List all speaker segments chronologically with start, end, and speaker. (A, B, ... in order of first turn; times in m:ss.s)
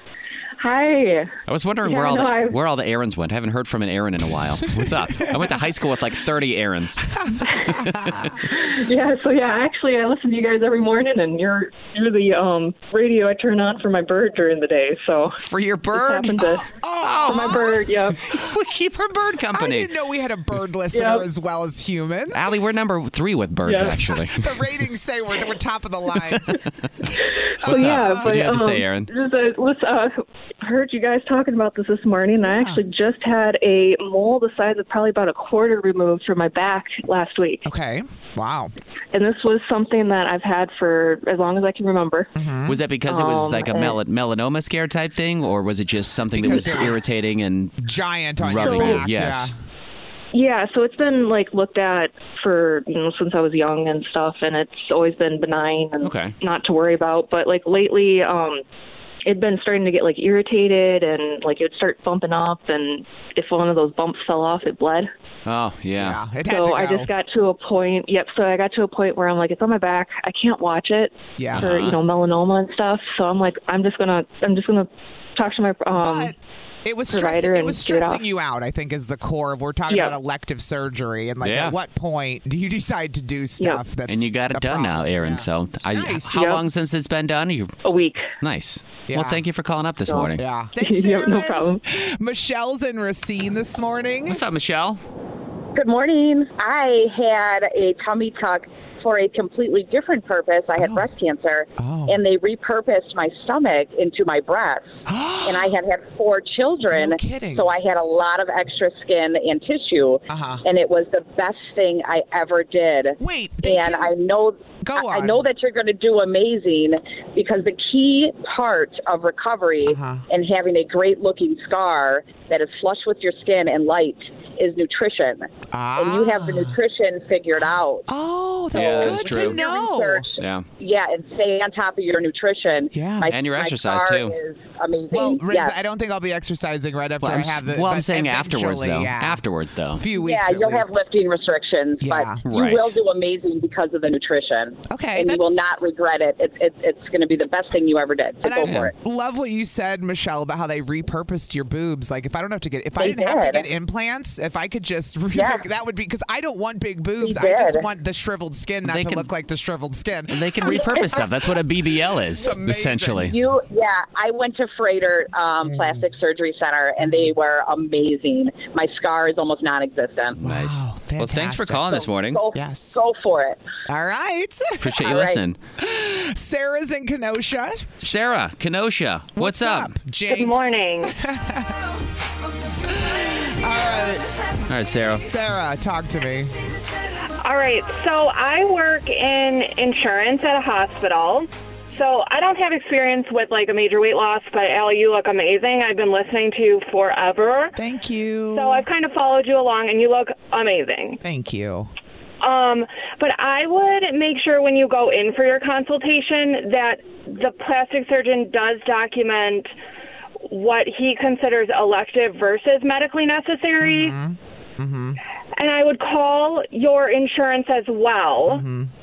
0:00.6-0:02.6 A
0:01.5-0:07.1 B
0:04.8-0:05.5 C
0:07.2-0:08.1 C
0:07.7-0:08.4 B
0:08.4-0:15.4 A
0:15.4-0:19.9 B
0:15.9-0:16.7 A
0:16.8-0:17.7 C
0:17.2-0:18.2 A
0:19.5-0:22.5 C
0:20.9-0:21.2 A
0:22.3-0:24.7 B
0:23.6-0:24.0 A
0:24.1-0:26.5 C
0:26.2-0:27.1 B
0:27.2-0:37.6 A
0:27.6-0:28.4 C
0:27.6-0:29.1 B
0:32.4-0:32.8 C
0:37.6-0:38.7 C
0:39.1-0:42.3 A
0:42.4-0:42.8 C
0:42.7-0:47.8 B
0:43.0-0:44.0 A
0:46.4-0:47.1 C
0:47.8-0:49.5 C
0:48.4-0:49.5 B
0:48.6-0:49.0 A
0:50.3-0:58.6 A
0:56.0-0:56.3 B
0:59.2-1:05.1 A
1:05.4-1:06.2 B
1:06.0-1:07.1 C
1:06.4-1:16.3 A
1:11.4-1:11.7 C
1:11.5-1:12.0 B
1:15.9-1:26.6 C
1:17.1-1:18.2 A
1:19.9-1:20.2 A
1:21.4-1:21.8 B
1:24.1-1:27.7 B
1:26.3-1:26.6 A
1:27.8-1:28.2 A
1:28.4-1:30.4 B
1:29.1-1:29.4 C
1:30.1-1:31.8 A
1:30.3-1:34.4 C
1:34.3-1:35.0 B
1:35.7-1:44.9 D
1:40.8-1:41.0 C
1:41.8-1:42.2 C
1:45.1-1:45.8 C
1:45.4-2:08.0 D
1:46.9-1:47.7 C
1:50.3-1:50.6 C
1:53.2-1:54.1 C
1:54.8-1:55.5 C
1:59.8-2:00.2 C
2:05.7-2:06.8 C
2:08.1-2:10.3 C
2:08.7-2:09.6 B
2:08.7-2:15.8 D
2:10.4-2:10.6 B
2:12.9-2:13.3 C
2:13.3-2:14.3 B
2:15.1-2:19.4 C
2:17.2-2:20.0 B
2:19.9-2:20.9 C
2:20.1-2:28.9 D
2:22.0-2:22.4 C
2:22.4-2:22.9 B
2:24.9-2:25.6 C
2:28.4-2:41.3 C
2:28.6-2:28.9 B
2:33.0-2:33.7 D
2:35.3-2:35.6 D
2:37.2-2:37.8 D
2:38.8-2:39.3 B
2:40.3-2:43.3 B
2:42.3-2:43.4 C
2:43.2-2:50.4 D
2:45.6-2:46.0 C
2:47.0-2:47.3 C
2:50.4-2:52.4 B
2:50.4-2:53.0 C
2:52.2-2:53.6 D
2:53.8-2:55.1 C
2:54.8-2:55.6 B
2:55.0-2:55.4 D
2:55.8-2:58.1 C
2:58.0-2:59.9 B
2:59.4-3:01.9 C
3:00.3-3:01.1 E
3:02.8-3:04.4 C
3:04.7-3:05.2 B
3:05.2-3:06.6 C
3:07.4-3:17.8 E
3:17.8-3:18.8 C
3:18.5-3:21.2 E
3:21.2-3:21.9 C
3:22.4-3:29.7 E
3:30.5-3:34.2 E
3:33.8-3:35.2 C
3:35.6-3:38.6 E
3:38.4-3:38.9 C